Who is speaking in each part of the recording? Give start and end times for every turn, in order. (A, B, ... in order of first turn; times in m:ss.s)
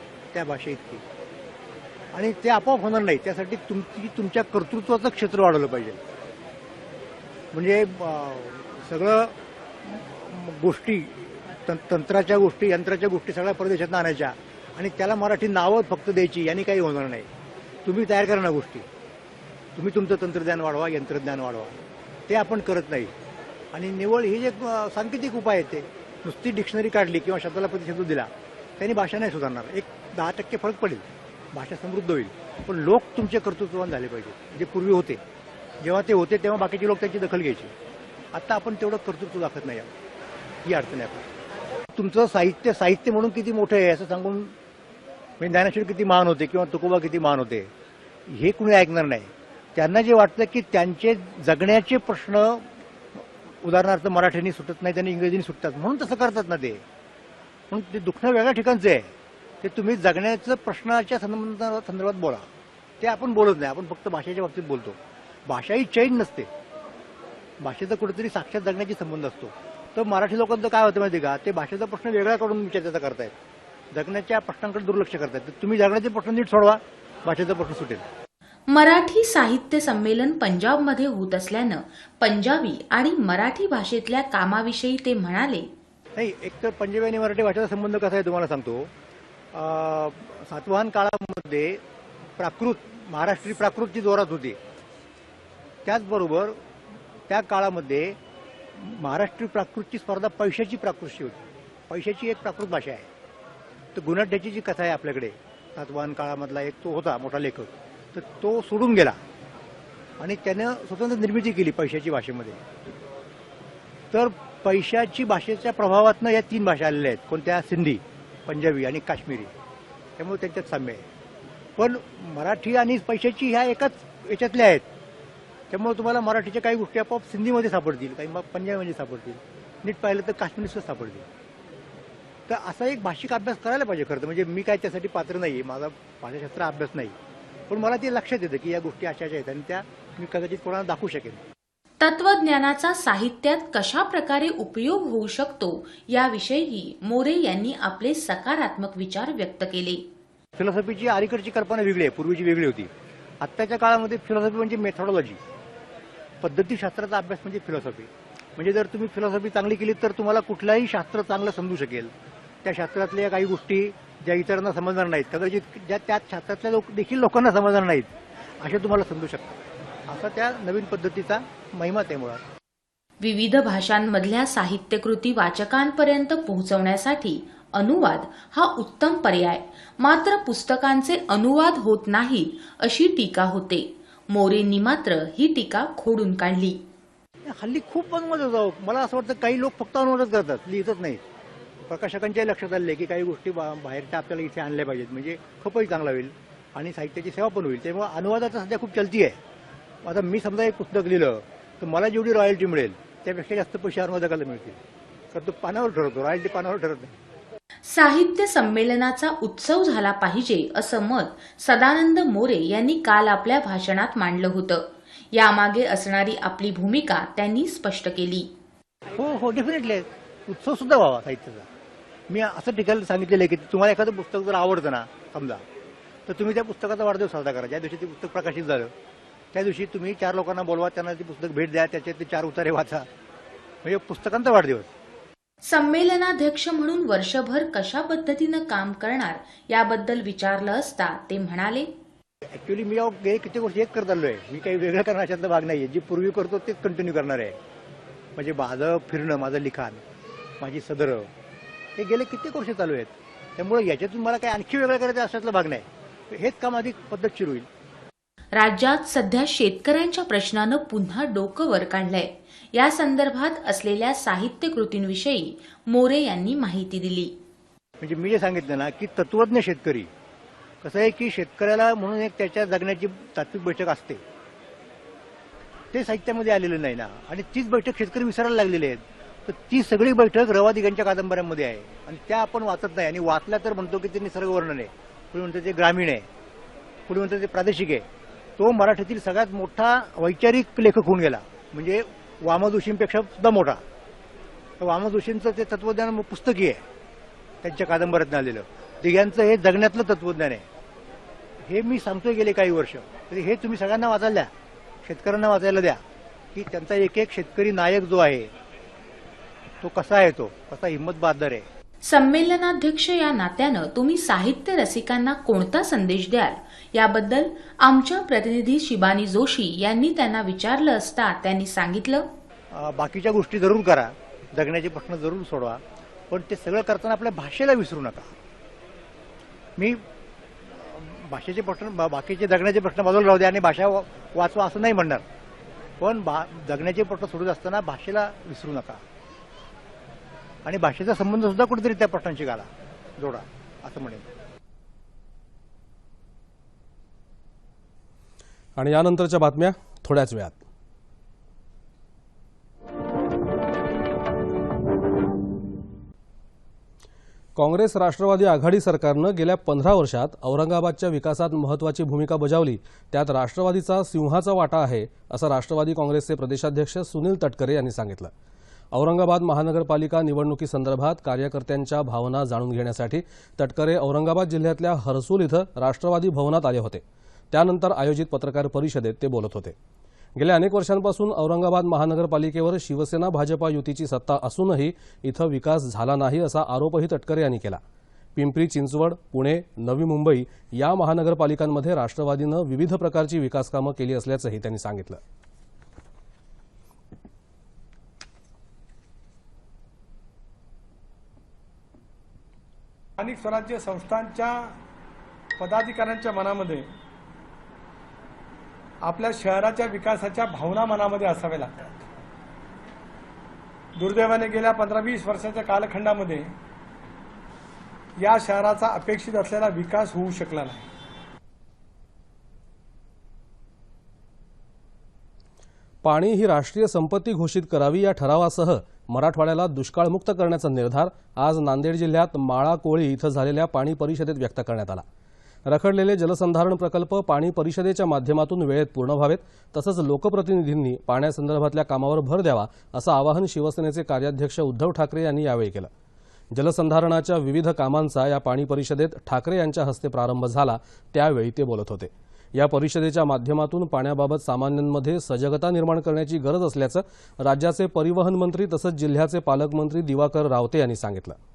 0:00.3-0:01.0 A
0:02.1-0:06.0 A
0:07.5-0:17.3 A
0:17.8-0:18.8 A
0:19.8-0:23.1 A
0:23.7-0:35.2 A
0:35.8-0:37.7 A
0:38.3-0:39.9 A
0:40.6-0:41.3 A
0:41.9-0:44.5 A
0:45.4-0:47.7 A
0:48.3-0:56.8 A
0:57.7-1:02.5 A
1:03.0-1:05.0 A
1:05.5-1:06.5 A
1:07.6-1:13.3 A
1:13.9-1:18.0 A
1:18.7-1:25.7 B
1:26.2-1:28.9 A
1:29.5-1:31.8 A
1:32.4-1:34.6 A
1:35.8-1:36.6 A
1:37.3-1:38.2 A
1:38.7-1:43.1 A
1:43.9-1:49.2 A
1:50.2-1:52.6 A
1:54.1-1:59.5 A
2:00.2-2:01.0 A
2:01.8-2:04.8 A
2:05.7-2:11.3 A
2:12.5-2:17.2 A
2:17.7-2:21.4 A
2:22.0-2:30.0 B
2:30.6-2:35.4 A
2:36.4-2:42.1 A
2:42.6-2:52.4 A
2:53.2-3:06.8 B
3:07.4-3:11.2 A
3:11.9-3:19.4 A
3:20.0-3:24.8 A
3:25.3-3:27.1 A
3:27.8-3:38.5 B
3:39.2-3:41.7 A
3:42.3-3:45.6 A
3:46.3-3:48.9 A
3:49.5-3:53.1 A
3:53.8-3:54.9 A
3:55.6-4:01.9 B
4:02.5-4:07.6 A
4:08.4-4:10.0 A
4:10.6-4:11.3 A
4:12.0-4:17.7 A
4:18.5-4:27.4 B
4:28.0-4:30.1 A
4:30.8-4:34.2 A
4:35.9-4:46.3 A
4:47.1-4:48.0 A
4:48.6-4:53.8 A
4:54.8-4:56.8 A
4:57.6-5:00.6 A
5:01.6-5:04.5 A
5:05.0-5:06.0 A
5:06.5-5:08.5 A
5:09.8-5:11.6 A
5:12.0-5:22.3 B
5:22.7-5:28.3 A
5:29.8-5:30.0 A
5:30.7-5:35.2 A
5:36.0-5:39.0 A
5:40.6-5:44.3 A
5:48.8-5:50.6 C
5:57.6-6:08.3 C
6:08.9-6:19.7 C
6:20.4-6:27.8 C
6:28.4-6:35.2 C
6:43.2-6:44.8 D
6:45.6-6:46.8 D
6:49.0-6:51.9 D
6:54.0-6:56.5 D
6:58.2-7:00.8 D
7:06.0-7:15.0 C
7:15.6-7:25.9 C
7:26.5-7:41.4 C